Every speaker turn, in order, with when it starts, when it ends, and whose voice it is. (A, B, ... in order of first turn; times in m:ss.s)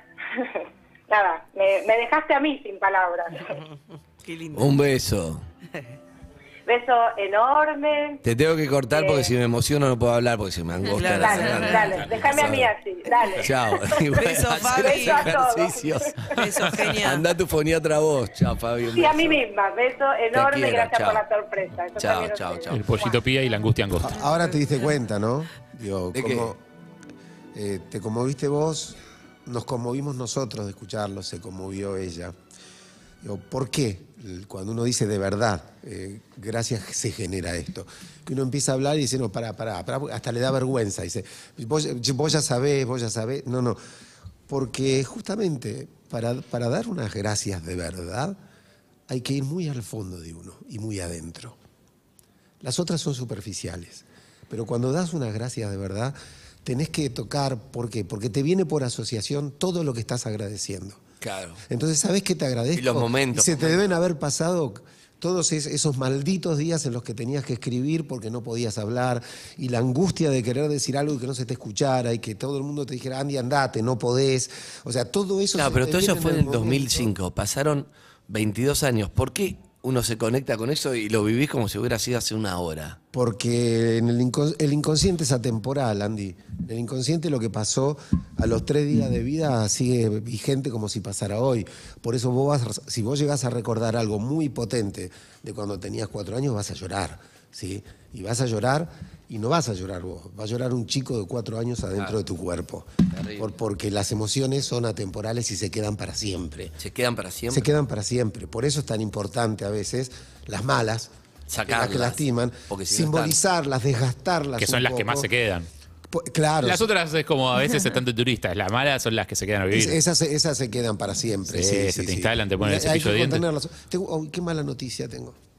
0:00.3-0:03.6 A
0:04.2-0:04.8 B
0:04.5-0:05.4 C
0:06.7-0:08.2 A
0:08.2-0:12.7 C
0:08.9-0:09.3 A
0:10.9-0:11.9 B
0:11.1-0:16.6 A
0:13.4-0:19.4 C
0:14.2-0:15.3 B
0:16.3-0:17.2 B
0:18.9-0:23.2 A
0:20.3-0:21.2 C
0:22.0-0:22.8 C
0:22.7-0:24.2 D
0:24.0-0:26.6 E
0:26.1-0:26.5 C
0:27.5-0:32.4 E
0:33.2-0:43.8 E
0:44.5-0:48.4 E
0:49.1-0:51.6 E
0:52.6-1:01.0 E
1:01.2-1:01.6 C
1:01.7-1:17.1 E
1:02.8-1:03.8 C
1:15.6-1:23.0 C
1:23.1-1:46.8 E
1:43.1-1:43.5 C
1:46.8-1:47.7 C
1:47.5-1:51.1 E
1:51.5-1:53.4 C
1:51.7-1:55.3 E
1:54.6-1:55.7 D
1:56.1-1:56.9 E
1:56.6-2:00.0 D
1:59.7-2:05.4 E
2:01.5-2:03.4 D